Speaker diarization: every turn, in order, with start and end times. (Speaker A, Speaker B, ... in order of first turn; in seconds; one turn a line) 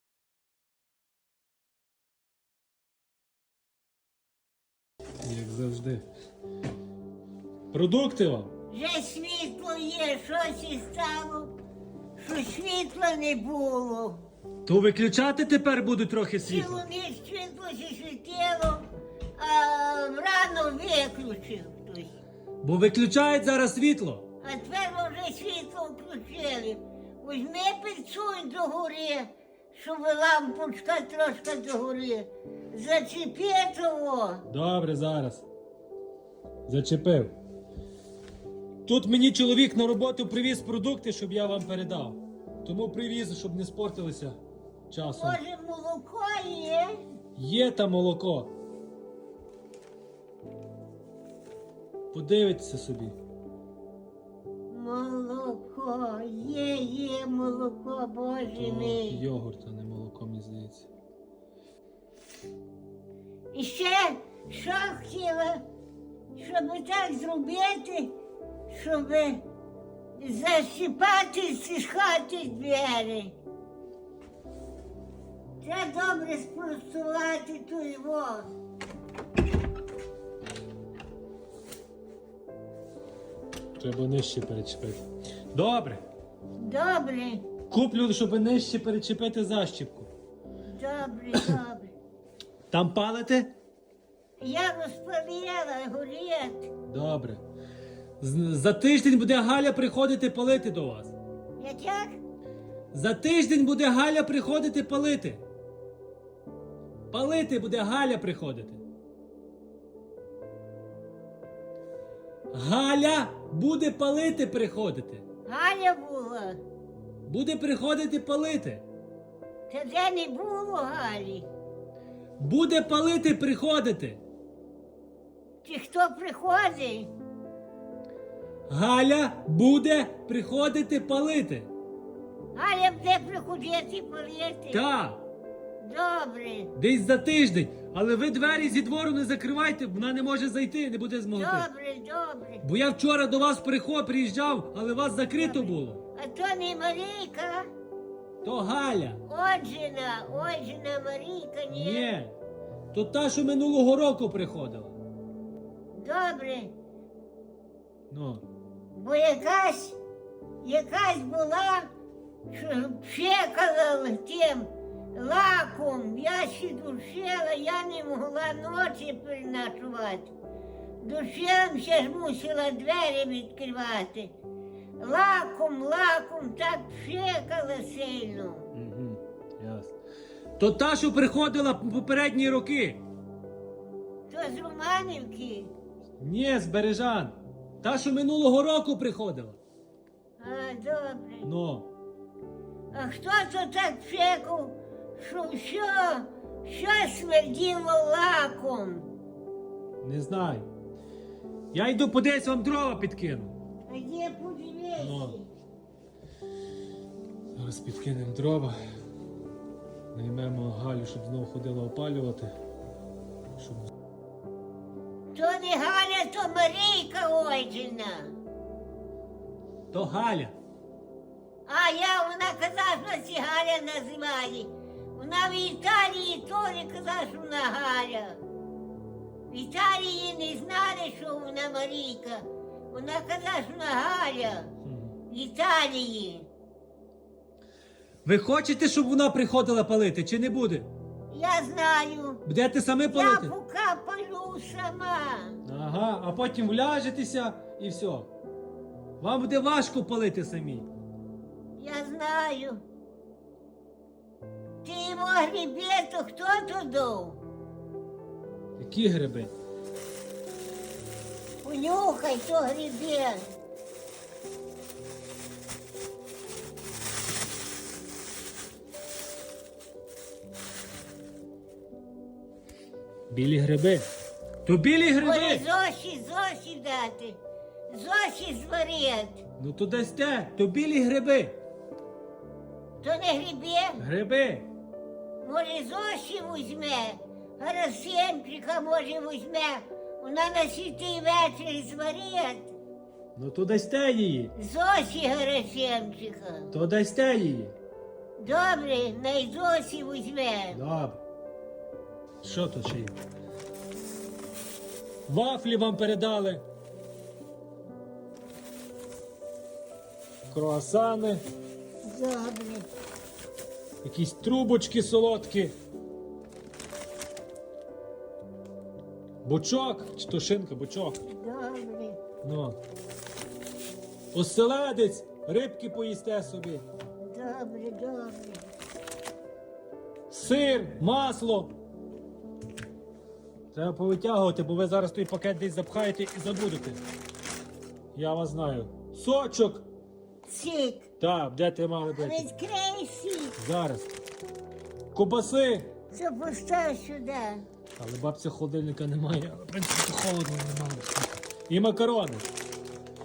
Speaker A: 5.2-6.0
Speaker A: 7.7-8.5
Speaker B: 8.7-11.5
Speaker B: 12.2-14.2
Speaker A: 14.6-16.8
Speaker B: 16.4-18.8
Speaker B: 19.4-22.2
Speaker A: 22.6-24.2
Speaker B: 24.4-34.4
Speaker A: 34.5-35.5
Speaker A: 36.7-37.3
Speaker A: 38.9-44.4
Speaker A: 44.9-45.4
Speaker B: 45.1-47.0
Speaker A: 47.4-48.5
Speaker A: 52.1-53.1
Speaker B: 54.7-59.2
Speaker A: 58.5-60.9
Speaker B: 63.5-65.6
Speaker B: 66.3-68.1
Speaker B: 68.7-69.4
Speaker B: 70.2-73.3
Speaker B: 75.6-78.5
Speaker A: 83.8-86.0
Speaker B: 86.6-87.5
Speaker A: 87.7-90.1
Speaker B: 90.7-91.9
Speaker A: 92.7-93.5
Speaker B: 94.4-96.7
Speaker A: 96.9-97.4
Speaker A: 98.2-101.2
Speaker B: 101.6-102.2
Speaker A: 102.9-105.4
Speaker A: 107.1-108.8
Speaker A: 112.5-115.2
Speaker B: 115.5-116.6
Speaker A: 117.2-118.8
Speaker B: 119.7-121.5
Speaker A: 122.4-124.2
Speaker B: 125.6-127.1
Speaker A: 128.7-131.7
Speaker B: 132.5-134.8
Speaker A: 134.7-135.2
Speaker B: 135.8-136.7
Speaker A: 136.8-141.7
Speaker B: 141.3-142.6
Speaker A: 142.6-146.0
Speaker B: 145.4-147.7
Speaker A: 148.4-149.2
Speaker B: 149.3-152.1
Speaker A: 151.7-152.3
Speaker A: 152.9-154.9
Speaker B: 155.9-156.7
Speaker A: 158.1-158.4
Speaker B: 158.9-160.0
Speaker B: 160.6-161.9
Speaker B: 162.5-170.3
Speaker B: 171.0-174.3
Speaker B: 175.0-178.7
Speaker A: 178.7-179.9
Speaker A: 180.6-183.0
Speaker B: 184.3-185.7
Speaker A: 186.2-189.6
Speaker B: 190.4-191.5
Speaker A: 191.4-191.9
Speaker B: 192.9-199.1
Speaker A: 200.0-200.7
Speaker A: 201.7-203.5
Speaker B: 203.9-205.4
Speaker A: 205.0-205.4
Speaker A: 207.6-208.8
Speaker A: 210.1-212.5
Speaker A: 213.6-213.9
Speaker B: 215.3-218.4
Speaker A: 219.9-220.5
Speaker B: 221.7-228.4
Speaker B: 229.5-234.7
Speaker A: 234.8-235.2
Speaker B: 235.3-236.5
Speaker A: 238.2-240.9
Speaker B: 241.3-242.4
Speaker A: 242.4-243.5
Speaker B: 243.1-245.6
Speaker A: 245.6-248.3
Speaker A: 249.2-250.9
Speaker B: 251.8-252.8
Speaker B: 254.8-257.4
Speaker A: 258.8-259.5
Speaker B: 261.6-263.4
Speaker A: 273.3-274.1
Speaker A: 274.6-275.6
Speaker B: 275.2-279.4
Speaker A: 279.6-281.6
Speaker B: 283.0-284.0
Speaker A: 284.0-284.6
Speaker B: 285.4-292.8
Speaker A: 293.3-294.5
Speaker B: 294.6-296.7
Speaker A: 296.7-297.7
Speaker B: 298.4-300.8
Speaker A: 300.7-301.2
Speaker A: 302.4-303.1
Speaker A: 305.3-306.6
Speaker A: 310.5-311.4
Speaker B: 312.0-312.9
Speaker A: 314.0-315.7
Speaker A: 319.4-321.2
Speaker B: 321.3-322.2
Speaker A: 322.4-322.8
Speaker A: 324.3-326.8
Speaker B: 327.2-328.7
Speaker A: 330.3-331.7
Speaker A: 333.7-337.0
Speaker A: 338.1-339.9
Speaker B: 340.4-341.1
Speaker A: 341.2-342.5
Speaker B: 342.2-343.6
Speaker A: 343.6-344.1
Speaker A: 345.1-345.9
Speaker B: 346.1-347.6
Speaker A: 348.0-352.5